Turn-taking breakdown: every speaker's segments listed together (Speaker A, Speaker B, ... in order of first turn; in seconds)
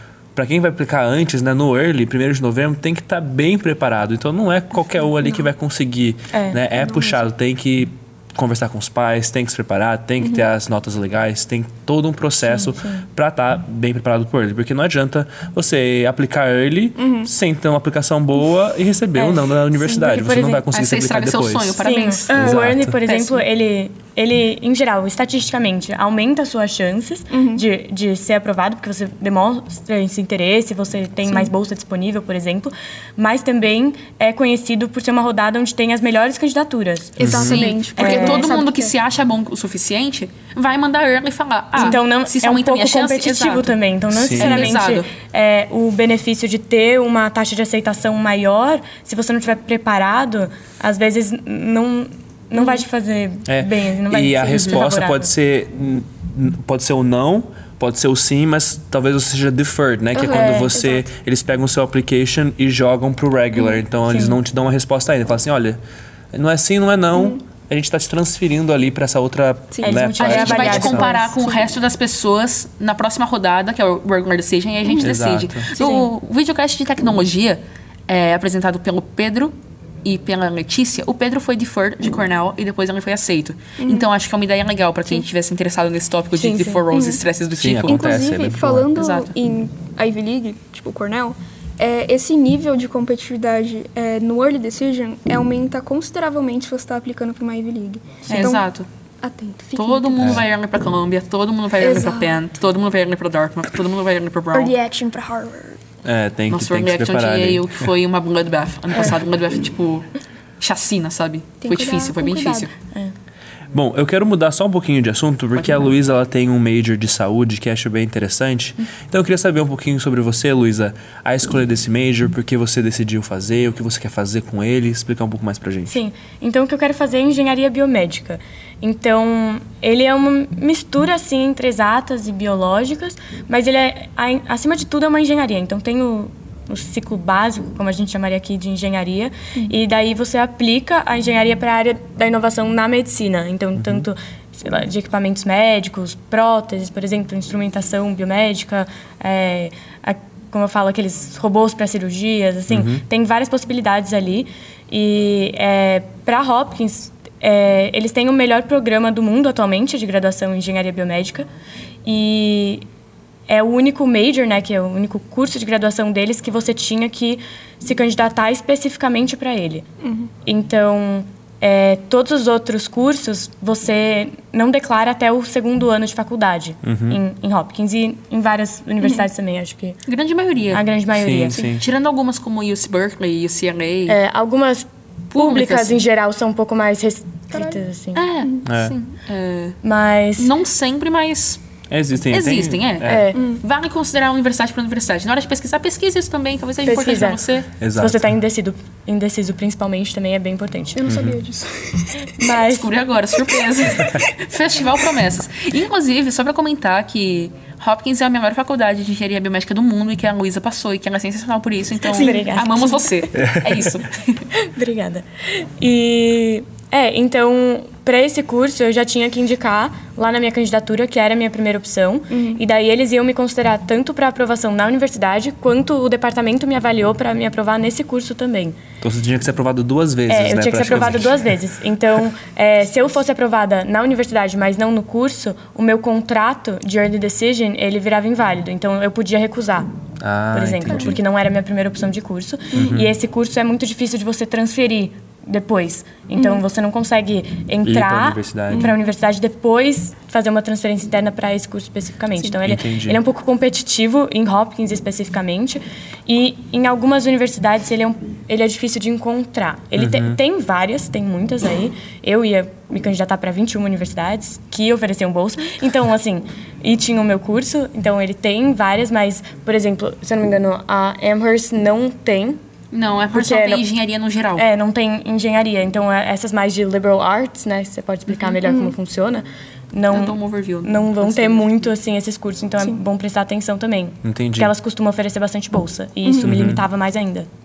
Speaker A: 0.3-22.9, 37.2-37.7, 44.1-44.8, 53.5-65.8, 66.3-71.1, 75.0-75.7, 87.6-88.9, 106.0-107.8, 113.7-126.0, 143.8-144.1, 152.7-153.0, 176.8-177.2, 181.1-181.8, 188.6-188.9, 191.9-193.2, 197.8-198.2, 201.1-201.4, 213.3-213.9, 229.0-231.5, 240.2-241.2, 242.7-243.1, 247.8-248.9, 252.6-253.2, 260.0-260.4, 284.2-284.7, 286.4-286.8
Speaker B: 6.3-6.6, 12.5-13.0, 19.2-20.6, 21.8-37.2, 38.0-38.5, 41.8-55.3, 60.3-60.8, 64.1-64.4, 69.8-71.2, 75.8-76.0, 86.3-86.8, 98.3-98.5, 125.9-161.4, 162.0-162.8, 163.5-169.8, 170.4-180.0, 180.7-181.6, 184.1-188.2, 189.8-190.5, 193.1-193.4, 196.8-197.4, 197.9-201.0, 202.4-202.9, 212.1-213.0, 214.5-228.8, 230.3-239.9, 240.5-272.6, 273.3-273.8, 274.6-287.5
Speaker C: 6.8-7.2, 10.2-10.5, 17.0-17.3, 22.3-22.6, 27.3-27.6, 37.2-38.9, 60.1-61.0, 67.1-67.4, 69.7-71.7, 74.8-75.1, 75.8-76.0, 83.8-84.1, 86.9-87.2, 87.9-98.7, 99.2-100.4, 101.8-102.4, 104.5-105.8, 111.6-112.7, 170.0-170.3, 187.5-187.8, 193.3-193.6, 200.9-202.3, 212.1-213.0, 222.3-222.6, 240.9-241.2, 242.7-243.0, 246.4-246.6, 248.7-249.0, 278.6-278.9, 286.2-286.6
Speaker D: 20.7-23.4, 37.3-43.8, 44.4-45.1, 54.5-54.8, 70.2-88.2, 89.0-89.3, 98.3-98.9, 99.8-104.7, 106.5-110.1, 110.6-112.7, 115.5-115.9, 180.1-180.8, 181.8-184.2, 185.3-186.0, 188.1-189.8, 190.4-191.6, 192.3-197.7, 202.4-214.4, 272.9-274.7, 280.1-281.8